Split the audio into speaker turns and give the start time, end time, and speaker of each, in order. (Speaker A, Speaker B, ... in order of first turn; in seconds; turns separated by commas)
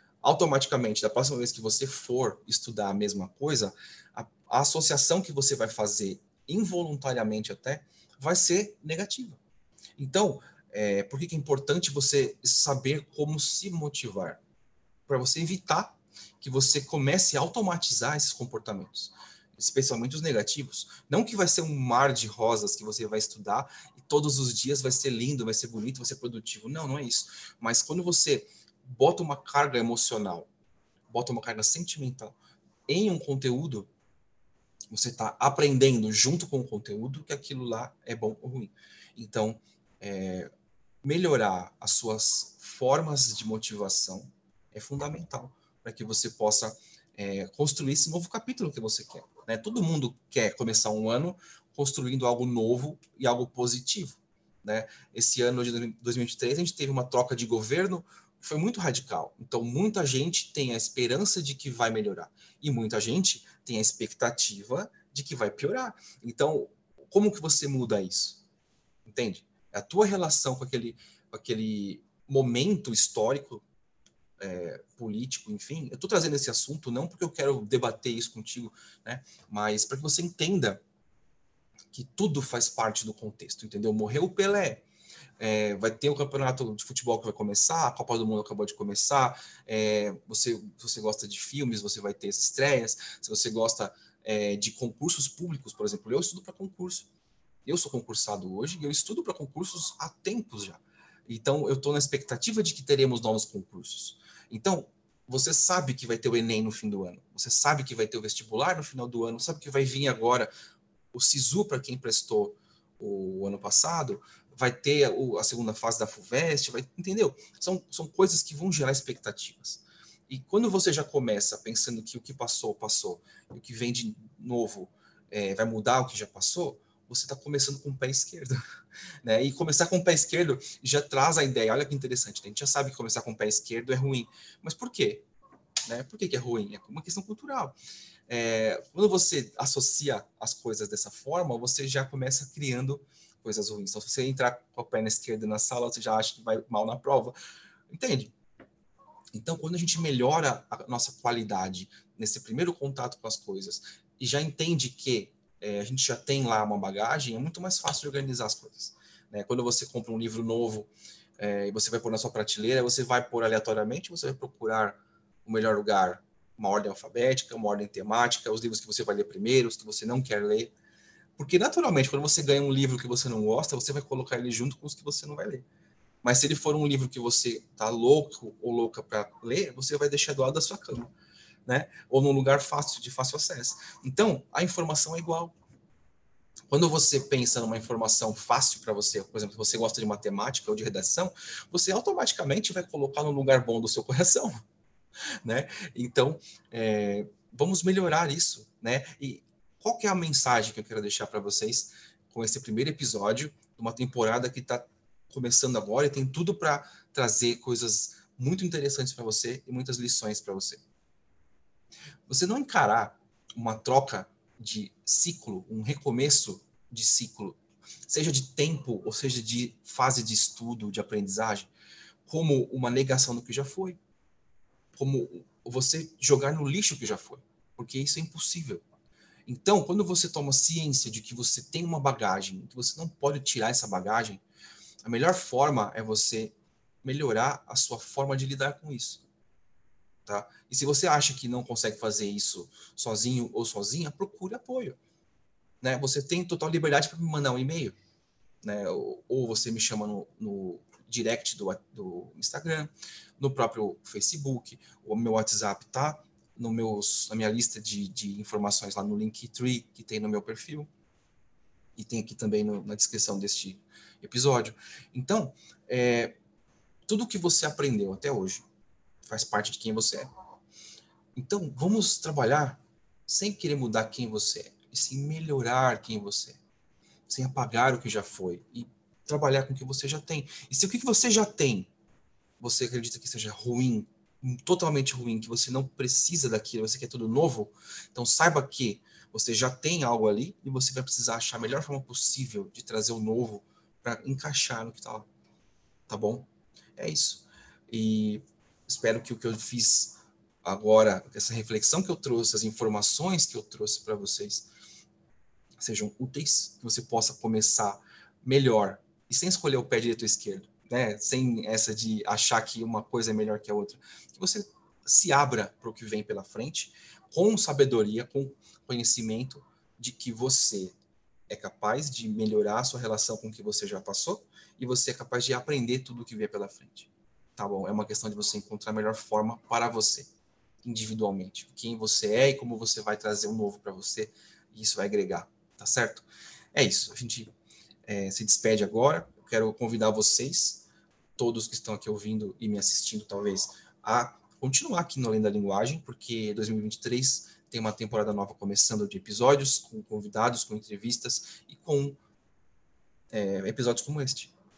Speaker A: 0.2-9.4, Speaker A: 10.0-14.4, Speaker A: 15.1-30.5, Speaker A: 31.1-32.3, Speaker A: 32.9-33.9, Speaker A: 34.9-40.5, Speaker A: 41.0-68.4, Speaker A: 69.0-73.6, Speaker A: 74.4-80.8, Speaker A: 81.9-84.8, Speaker A: 85.4-97.1, Speaker A: 97.6-110.5, Speaker A: 111.1-128.6, Speaker A: 129.2-135.3, Speaker A: 135.8-137.8, Speaker A: 138.3-147.3, Speaker A: 147.9-148.3, Speaker A: 149.3-170.7, Speaker A: 171.4-175.6, Speaker A: 176.2-181.1, Speaker A: 181.7-185.5, Speaker A: 186.7-194.6, Speaker A: 195.4-210.8, Speaker A: 212.3-221.7, Speaker A: 222.2-224.0, Speaker A: 224.9-228.8, Speaker A: 229.5-234.4, Speaker A: 235.0-239.2, Speaker A: 240.3-245.0, Speaker A: 245.8-247.9, Speaker A: 248.6-260.9, Speaker A: 262.0-266.4, Speaker A: 267.1-268.6, Speaker A: 269.2-270.3, Speaker A: 271.3-276.6, Speaker A: 277.3-281.9, Speaker A: 282.6-295.3, Speaker A: 296.1-304.7, Speaker A: 305.8-320.9, Speaker A: 321.5-330.3, Speaker A: 330.8-337.5, Speaker A: 338.1-340.8, Speaker A: 341.4-352.2, Speaker A: 353.3-354.5